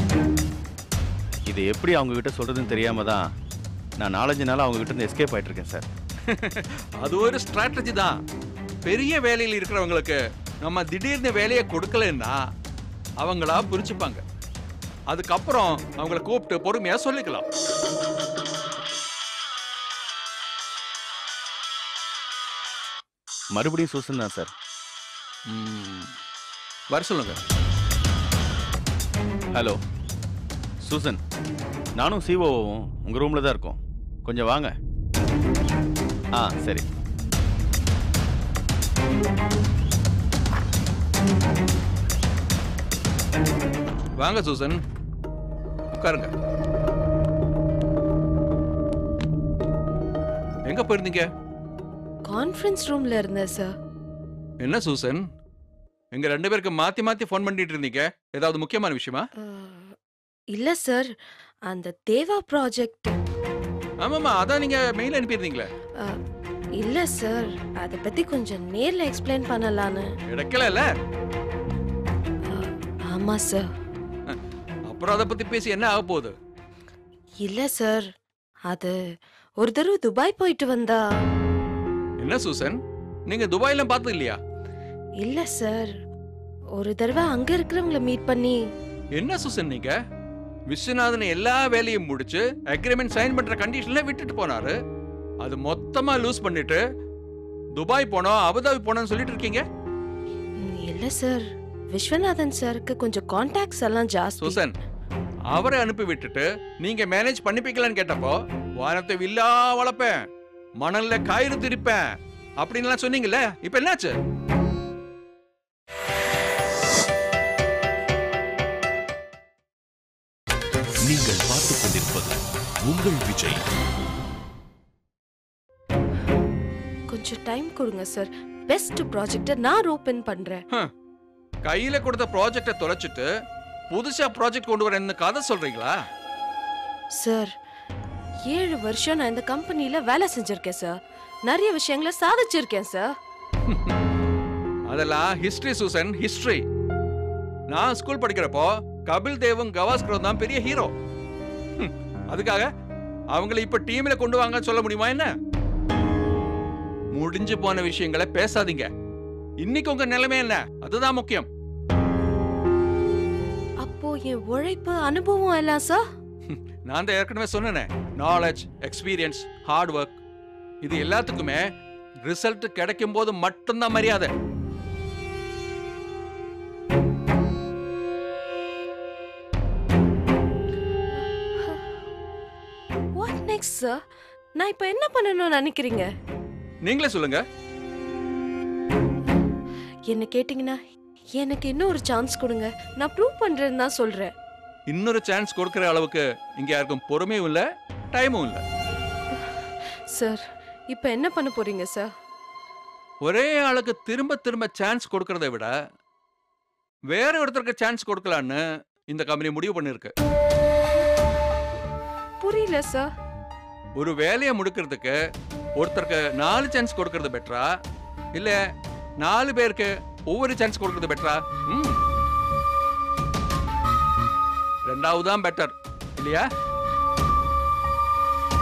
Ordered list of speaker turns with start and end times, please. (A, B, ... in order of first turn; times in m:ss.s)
0:01.5-0:03.2 A
0:04.0-0:05.9 A
0:06.3-0:08.2 B
0:08.8-0:12.4 B
0:13.2-0:14.2 B
0:15.1-0:17.4 B
0:23.6-0:24.5 A
0:25.5-0:26.1 B
0:26.9-0:27.4 B
0:30.8-0:31.2 A
0:32.0-0:34.7 A
0:36.4-0:36.9 A
0:44.2-0:44.8 B
0:45.9-0:46.3 B
0:50.7-0:51.3 B
0:52.3-0:53.7 C
0:54.6-0:55.2 B
0:56.2-0:59.3 B
0:59.4-1:00.0 C
1:00.5-1:01.1 C
1:01.7-1:03.2 C
1:04.0-1:05.7 B
1:06.8-1:10.1 C
1:10.3-1:10.9 B
1:12.5-1:13.7 C
1:14.9-1:16.3 B
1:17.4-1:18.1 C
1:18.7-1:19.0 C
1:19.6-1:21.0 C
1:22.2-1:22.8 B
1:23.3-1:24.4 B
1:25.2-1:25.9 C
1:26.8-1:28.6 C
1:29.2-1:29.9 B
1:30.7-1:34.8 B
1:35.4-1:36.8 B
1:37.8-1:39.6 B
1:40.6-1:44.6 C
1:44.4-1:44.7 B
1:45.5-1:50.2 B
1:50.8-1:52.0 B
1:52.6-1:54.1 B
2:01.0-2:03.6 D
2:07.1-2:10.6 C
2:11.7-2:13.3 B
2:13.9-2:15.9 B
2:17.2-2:17.5 C
2:18.5-2:23.1 C
2:23.7-2:23.9 B
2:24.9-2:26.6 B
2:27.7-2:30.9 B
2:31.8-2:32.7 B
2:33.4-2:35.3 B
2:37.1-2:38.9 B
2:39.6-2:41.5 B
2:43.8-2:46.0 C
2:46.5-2:50.2 B
2:50.8-2:51.6 B
2:52.3-2:54.3 B
3:03.2-3:04.0 C
3:04.6-3:06.1 C
3:06.8-3:07.4 B
3:10.1-3:10.8 C
3:11.4-3:14.3 C
3:14.9-3:18.6 B
3:20.1-3:22.1 C
3:23.2-3:25.7 B
3:27.1-3:28.6 B
3:29.1-3:30.1 B
3:32.4-3:33.1 C
3:34.0-3:35.2 B
3:35.8-3:37.7 B
3:39.2-3:42.0 B
3:44.9-3:46.5 B